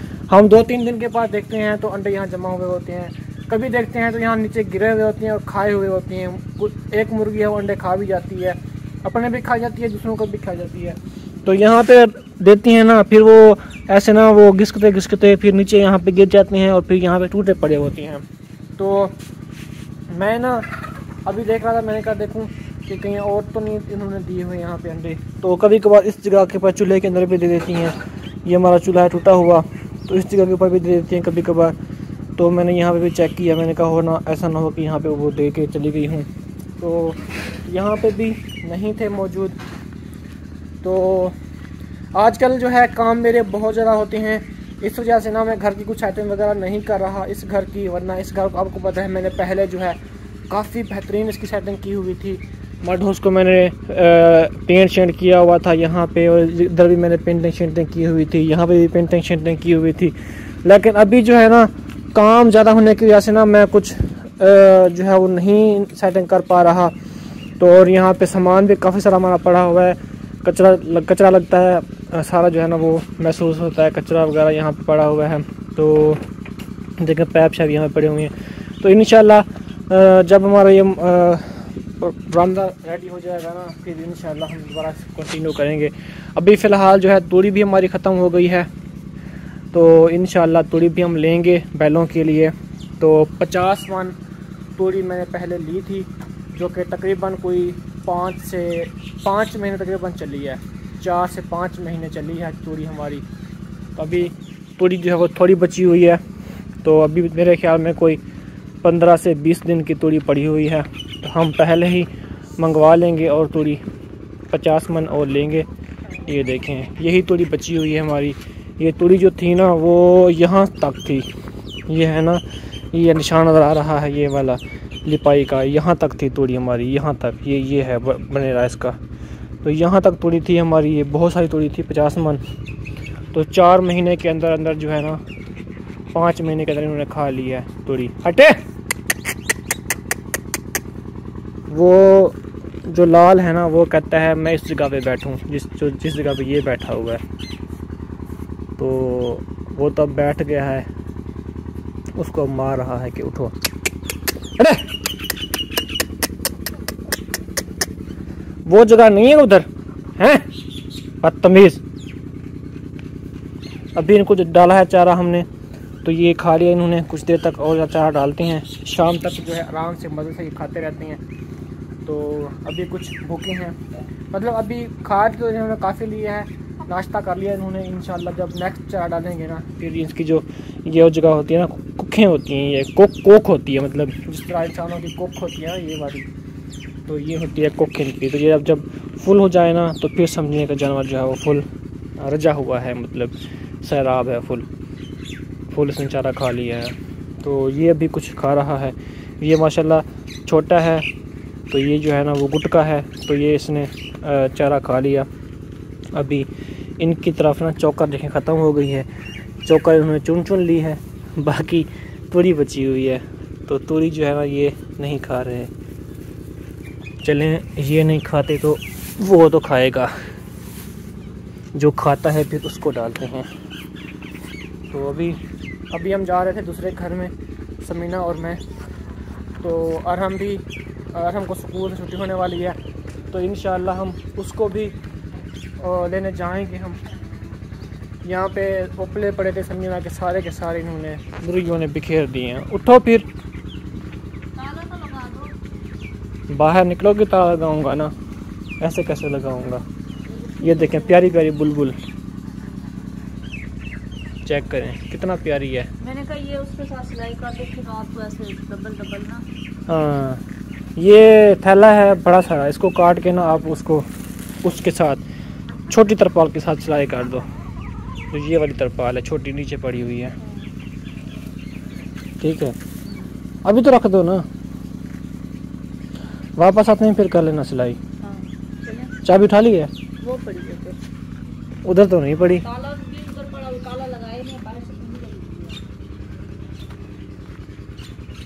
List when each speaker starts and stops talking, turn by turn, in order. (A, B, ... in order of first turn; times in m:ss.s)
0:00.3-0:18.2 A
0:18.8-0:19.2 A
0:20.1-0:20.6 A
0:21.2-0:31.7 A
0:32.4-0:36.3 A
0:36.8-0:39.6 A
0:40.8-0:41.4 A
0:42.1-0:50.0 A
0:50.5-1:06.9 A
1:07.6-1:16.2 A
1:17.0-1:28.7 A
1:29.7-1:34.1 A
1:34.8-1:43.2 A
1:44.0-1:46.2 A
1:46.8-1:48.2 A
1:48.8-1:53.8 A
1:54.5-1:55.7 A
1:56.2-2:01.3 A
2:01.9-2:08.9 A
2:09.6-2:12.4 A
2:13.3-2:15.2 A
2:16.1-2:18.5 A
2:21.7-2:27.2 A
2:28.8-2:30.9 A
2:32.2-2:33.5 A
2:34.6-2:34.9 A
2:38.7-2:39.7 A
2:40.2-2:40.4 A
2:41.2-2:41.8 A
2:43.9-2:45.5 A
2:46.0-2:51.2 A
2:52.0-2:53.8 A
2:54.3-3:06.3 A
3:07.1-3:11.6 A
3:12.2-3:14.6 A
3:15.7-3:21.0 A
3:21.7-3:25.3 A
3:26.1-3:26.5 A
3:27.0-3:29.1 A
3:29.6-3:35.7 A
3:37.2-3:40.1 A
3:41.7-3:43.5 A
3:44.9-3:45.4 A
3:45.9-3:48.6 A
3:49.6-3:52.8 A
3:53.3-3:55.0 A
3:55.8-3:57.0 A
3:58.2-4:03.3 A
4:04.5-4:05.5 B
4:06.5-4:08.1 A
4:08.8-4:09.8 A
4:10.3-4:11.3 B
4:10.6-4:12.0 A
4:14.4-4:15.9 A
4:16.0-4:19.4 B
4:19.9-4:20.4 A
4:21.0-4:24.1 A
4:24.6-4:25.2 A
4:25.9-4:27.4 A
4:28.3-4:30.4 A
4:30.4-4:30.7 B
4:32.4-4:32.8 A
4:33.0-4:33.4 B
4:33.6-4:34.5 A
4:36.6-4:38.0 A
4:38.2-4:39.1 B
4:39.2-4:39.9 A
4:40.2-4:41.0 B
4:41.8-4:42.6 A
4:42.6-4:45.8 B